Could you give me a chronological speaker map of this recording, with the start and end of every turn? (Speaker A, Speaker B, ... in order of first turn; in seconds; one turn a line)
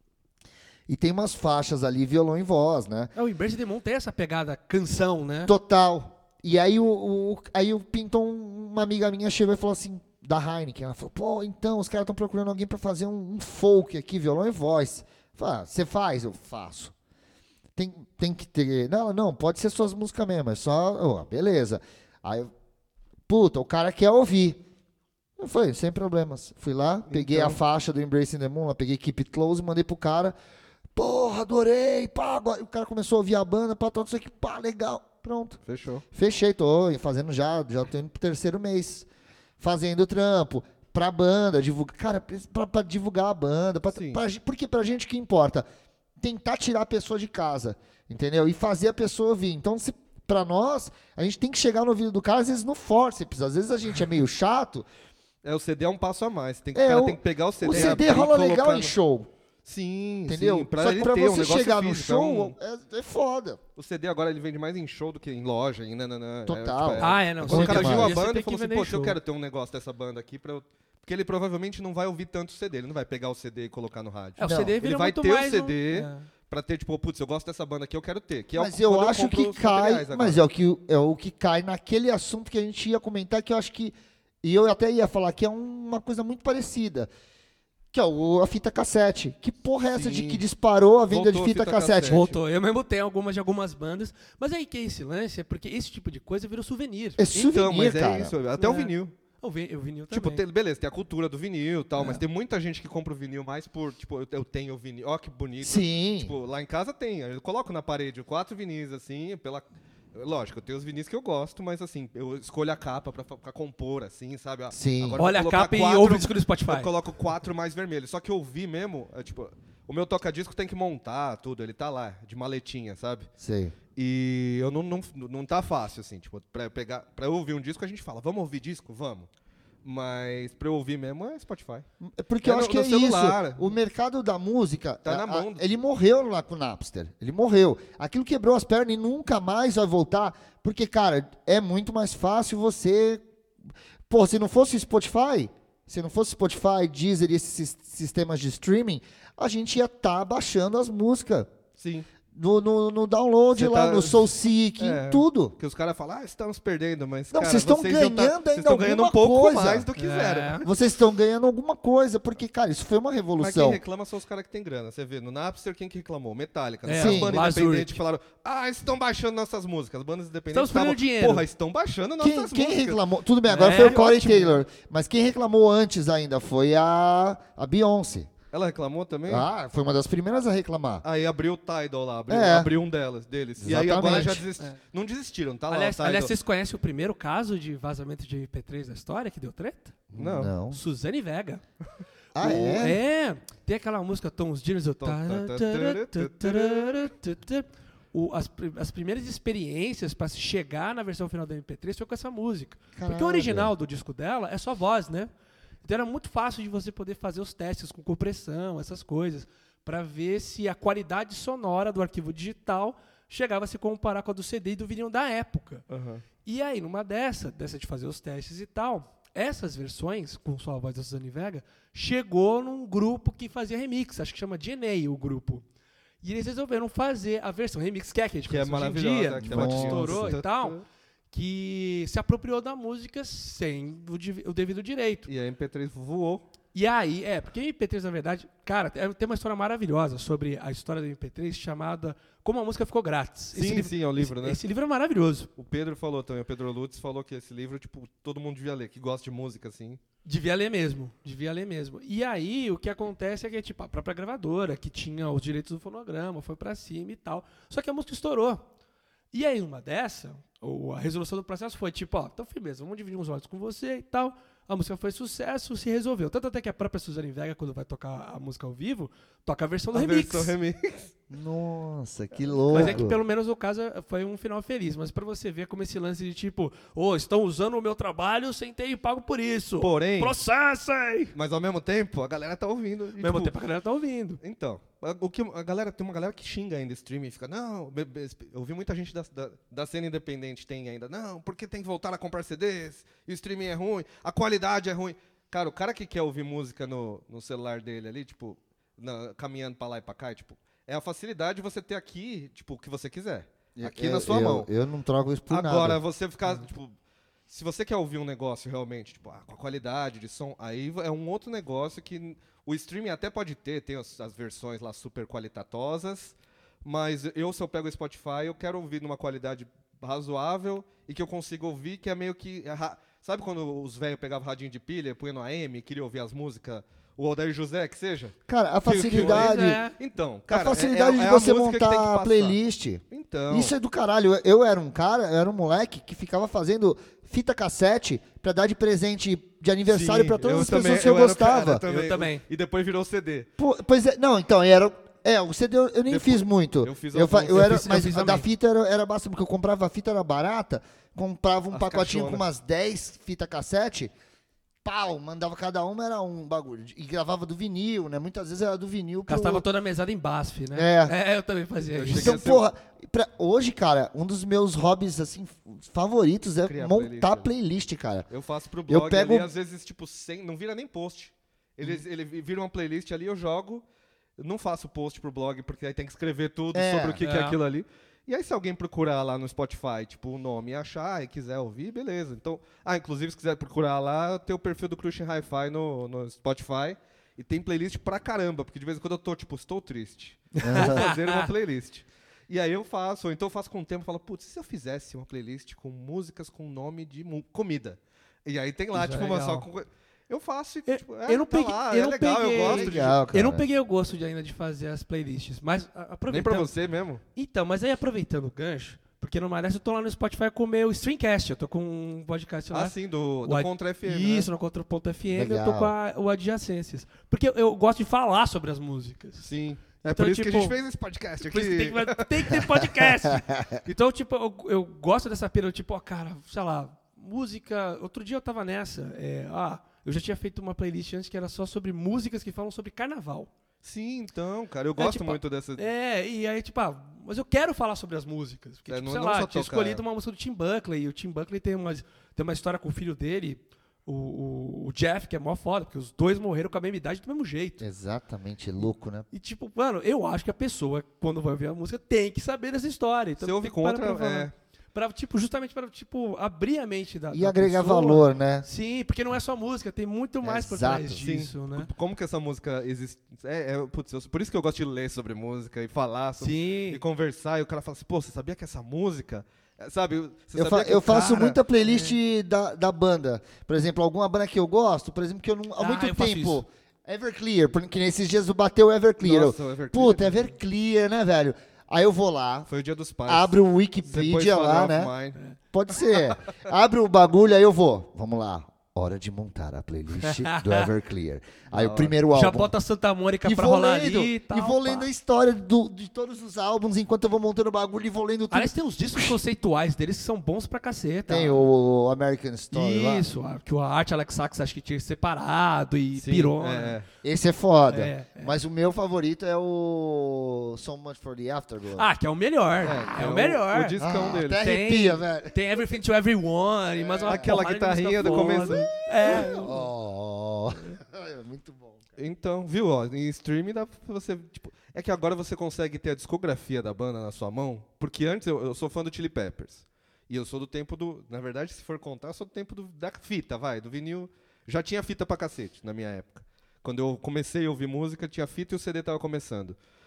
Speaker A: 0.9-3.1
Speaker B: 3.1-5.5
Speaker A: 5.5-16.9
Speaker A: 17.8-22.5
Speaker A: 23.3-24.6
Speaker A: 25.4-30.3
Speaker C: 27.1-27.6
Speaker A: 30.9-35.6
Speaker C: 35.6-36.0
Speaker A: 36.1-39.1
Speaker A: 39.6-45.6
Speaker C: 43.9-44.2
Speaker A: 46.2-54.9
Speaker C: 55.4-58.9
Speaker A: 56.7-59.3
Speaker B: 57.7-58.0
Speaker C: 59.6-62.5
Speaker A: 60.3-63.6
Speaker C: 63.8-80.4
Speaker A: 66.5-68.2
Speaker B: 67.0-69.2
Speaker B: 74.4-76.3
Speaker A: 74.4-74.7
Speaker A: 78.5-87.1
Speaker A: 87.9-92.2
Speaker C: 89.9-90.4
Speaker C: 91.1-92.3
Speaker B: 92.0-97.2
Speaker A: 97.2-98.3
Speaker C: 97.3-99.1
Speaker B: 98.6-100.4
Speaker C: 100.1-123.3
Speaker A: 105.6-106.3
Speaker A: 114.7-115.2
Speaker B: 115.2-116.9
Speaker A: 123.4-123.8
Speaker C: 123.9-129.3
Speaker C: 129.8-131.8
Speaker A: 132.0-143.2
Speaker C: 132.4-133.7
Speaker C: 135.0-135.6
Speaker A: 144.1-151.5
Speaker C: 151.8-152.1
Speaker A: 152.3-155.5
Speaker C: 153.5-160.6
Speaker A: 157.3-159.9
Speaker B: 160.0-160.7
Speaker A: 160.6-163.8
Speaker C: 163.4-173.0
Speaker B: 166.8-168.0
Speaker A: 167.0-167.4
Speaker B: 170.5-171.4
Speaker A: 172.2-178.3
Speaker B: 173.5-174.5
Speaker C: 173.7-174.4
Speaker C: 178.5-179.5
Speaker A: 179.3-181.0
Speaker C: 181.0-186.3
Speaker A: 182.3-182.7
Speaker A: 183.6-184.4
Speaker B: 184.0-184.8
Speaker B: 185.7-190.0
Speaker A: 190.1-190.8
Speaker C: 190.1-190.5
Speaker B: 190.7-191.6
Speaker A: 192.3-193.0
Speaker B: 192.4-205.3
Speaker C: 195.0-197.1
Speaker A: 202.9-203.7
Speaker B: 205.8-215.8
Speaker C: 215.9-216.2
Speaker B: 216.4-225.6
Speaker B: 226.2-230.8
Speaker C: 228.5-230.8
Speaker A: 229.4-230.4
Speaker B: 231.3-235.3
Speaker C: 235.3-236.4
Speaker B: 236.7-245.5
Speaker C: 243.6-244.6
Speaker C: 245.6-250.0
Speaker B: 250.2-258.6
Speaker B: 259.3-270.5
Speaker C: 269.9-271.1
Speaker A: 271.3-273.2
Speaker C: 272.7-273.0
Speaker B: 272.7-281.3
Speaker C: 279.8-280.4
Speaker C: 281.3-283.5
Speaker B: 283.2-284.4
Speaker C: 284.4-304.7
Speaker A: 303.8-306.0
Speaker C: 305.5-306.9
Speaker C: 307.5-332.6
Speaker A: 328.5-329.8
Speaker B: 329.0-329.9
Speaker A: 330.5-341.8
Speaker C: 333.1-333.7
Speaker C: 339.9-343.5
Speaker B: 341.8-342.4
Speaker A: 343.6-354.1
Speaker C: 346.1-347.9
Speaker B: 347.5-348.5
Speaker C: 351.7-352.4
Speaker A: 354.8-359.6
Speaker B: 359.3-362.4
Speaker A: 360.7-361.1
Speaker C: 361.9-362.6
Speaker A: 362.1-368.3
Speaker C: 366.6-367.5
Speaker C: 368.3-373.8
Speaker A: 368.9-369.5
Speaker C: 374.4-403.2
Speaker A: 376.7-377.2
Speaker B: 377.2-377.6
Speaker B: 390.6-391.5
Speaker A: 390.6-391.0
Speaker B: 398.9-399.6
Speaker B: 400.9-406.7
Speaker A: 402.6-403.6
Speaker C: 406.3-407.2
Speaker B: 407.3-419.5
Speaker C: 412.7-414.5
Speaker A: 415.3-415.9
Speaker C: 419.4-422.8
Speaker B: 420.0-420.8
Speaker B: 421.4-433.5
Speaker A: 423.3-423.8
Speaker C: 433.8-435.8
Speaker B: 435.0-447.8
Speaker C: 438.9-440.0
Speaker A: 447.8-449.3
Speaker B: 449.3-461.9
Speaker C: 453.4-454.5
Speaker A: 457.3-458.6
Speaker A: 460.4-461.2
Speaker C: 461.1-471.6
Speaker B: 466.4-467.0
Speaker A: 470.6-482.7
Speaker B: 471.8-472.1
Speaker B: 475.8-476.6
Speaker C: 479.2-480.5
Speaker C: 482.7-485.4
Speaker A: 483.3-485.1
Speaker A: 485.7-492.7
Speaker B: 490.2-490.9
Speaker C: 491.7-492.1
Speaker B: 492.3-495.1
Speaker A: 493.4-499.4
Speaker B: 498.5-501.7
Speaker A: 501.3-503.3
Speaker B: 502.7-507.0
Speaker C: 506.1-507.1
Speaker A: 507.2-512.1
Speaker B: 507.9-508.6
Speaker B: 511.9-519.8
Speaker C: 512.8-514.6
Speaker A: 514.0-515.6
Speaker A: 517.2-517.6
Speaker C: 517.2-519.6
Speaker A: 518.2-522.0
Speaker C: 522.2-539.8